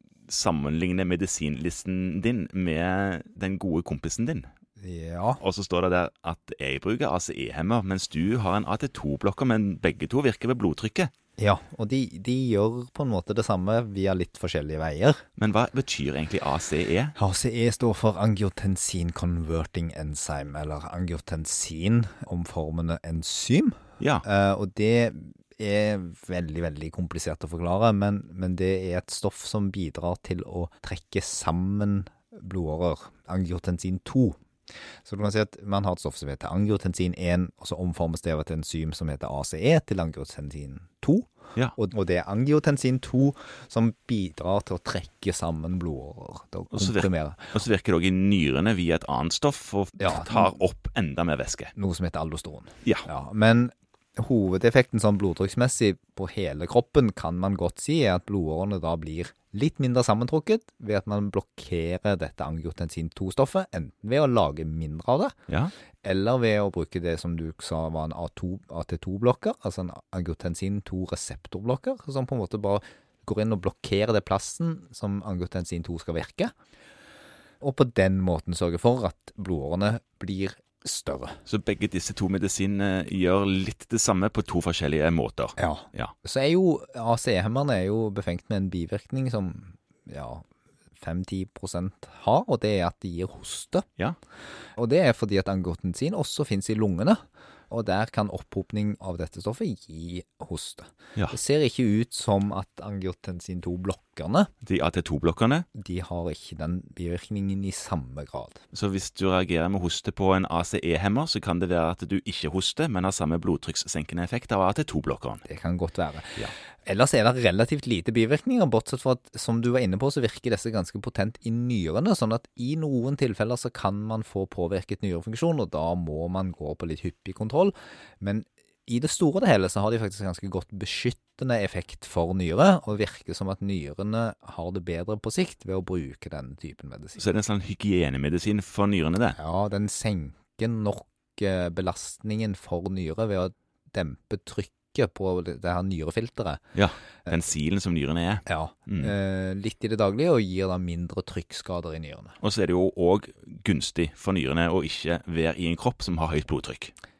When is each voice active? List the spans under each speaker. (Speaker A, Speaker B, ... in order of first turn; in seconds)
Speaker A: 0.3-4.5, 5.4-11.1, 15.4-17.1, 46.7-51.7, 81.5-86.1, 104.6-105.7, 108.7-115.4, 137.2-139.4, 146.7-149.1, 152.4-156.9
Speaker B: 4.8-5.4, 11.4-15.2, 17.1-34.4, 35.0-47.6, 50.0-50.5, 51.8-65.3, 66.0-76.5, 77.6-81.4, 85.6-93.9, 94.8-104.5, 105.7-108.6, 115.4-137.2, 139.3-146.6, 148.4-152.4